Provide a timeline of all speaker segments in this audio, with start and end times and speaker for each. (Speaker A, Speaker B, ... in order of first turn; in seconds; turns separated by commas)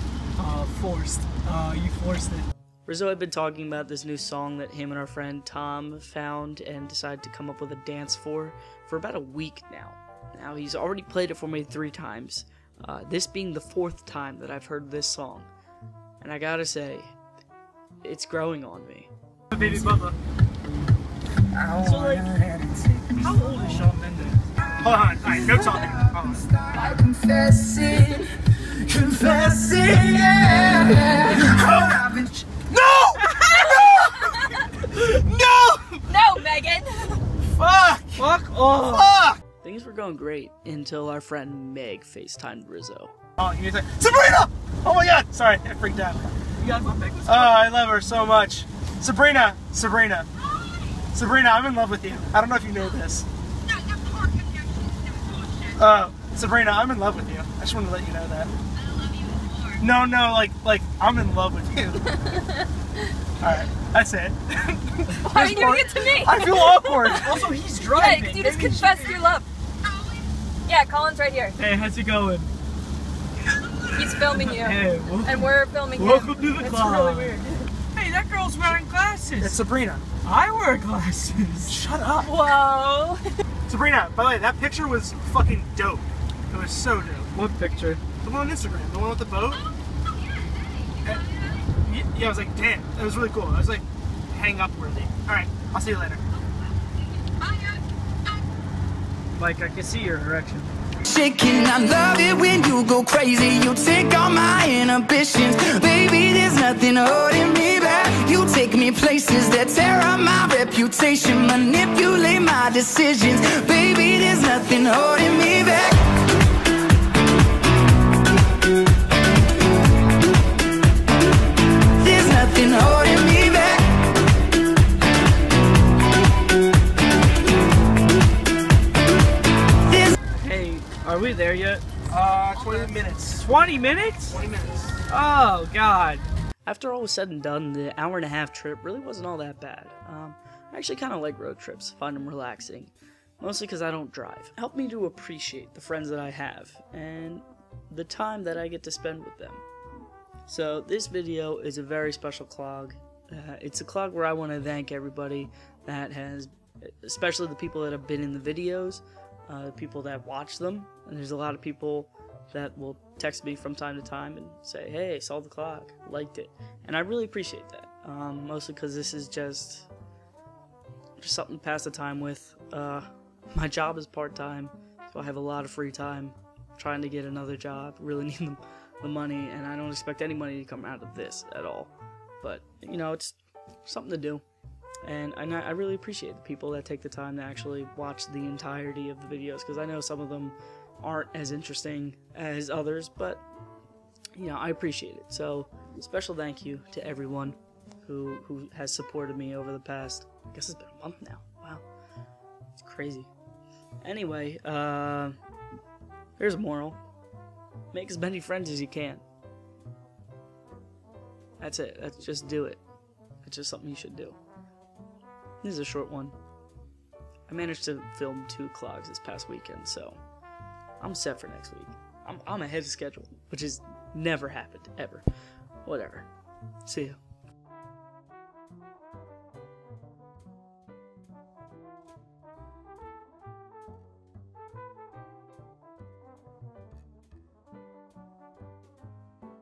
Speaker A: 0.4-2.5, Speaker B: 2.9-15.5, Speaker B: 16.2-17.1, Speaker B: 18.0-19.1, Speaker C: 19.5-20.1, Speaker A: 19.6-20.0, Speaker B: 21.8-22.3, Speaker A: 21.8-22.2, Speaker A: 23.0-24.4, Speaker C: 24.8-26.5, Speaker D: 26.7-27.3, Speaker E: 27.1-31.4, Speaker C: 29.2-34.4, Speaker A: 33.4-33.8, Speaker D: 33.8-34.5, Speaker A: 35.0-35.4, Speaker C: 35.5-35.8, Speaker D: 36.1-37.2, Speaker C: 37.4-38.3, Speaker A: 38.2-39.2, Speaker C: 38.8-39.4, Speaker B: 39.6-43.1, Speaker C: 43.4-46.4, Speaker A: 46.6-47.8, Speaker C: 47.3-50.3, Speaker C: 51.1-53.3, Speaker C: 55.8-58.5, Speaker C: 59.8-62.1, Speaker D: 62.2-62.7, Speaker C: 63.4-67.4, Speaker D: 65.2-67.3, Speaker A: 67.1-69.2, Speaker D: 67.9-69.5, Speaker D: 70.7-71.6, Speaker A: 71.6-72.5, Speaker D: 73.9-77.7, Speaker A: 74.2-77.4, Speaker A: 77.9-79.6, Speaker C: 79.4-80.1, Speaker A: 80.2-81.8, Speaker C: 81.7-82.3, Speaker D: 82.2-83.4, Speaker C: 83.7-87.3, Speaker A: 87.3-88.0, Speaker C: 88.2-89.7, Speaker C: 91.0-96.2, Speaker A: 99.3-100.7, Speaker E: 101.0-116.0, Speaker E: 122.0-123.9, Speaker A: 130.3-131.8, Speaker C: 132.1-133.5, Speaker A: 133.4-134.4, Speaker C: 134.3-135.0, Speaker A: 135.1-136.3, Speaker B: 136.7-149.6, Speaker B: 150.5-169.9, Speaker B: 171.2-184.4, Speaker B: 185.0-193.4, Speaker B: 194.4-201.8, Speaker B: 202.8-203.3, Speaker B: 204.0-205.4, Speaker B: 206.4-207.0, Speaker B: 207.9-209.2, Speaker B: 211.6-212.8, Speaker B: 213.4-214.4, Speaker B: 215.6-216.3, Speaker B: 217.5-220.2, Speaker B: 221.0-225.2, Speaker B: 225.8-226.3, Speaker B: 226.8-227.2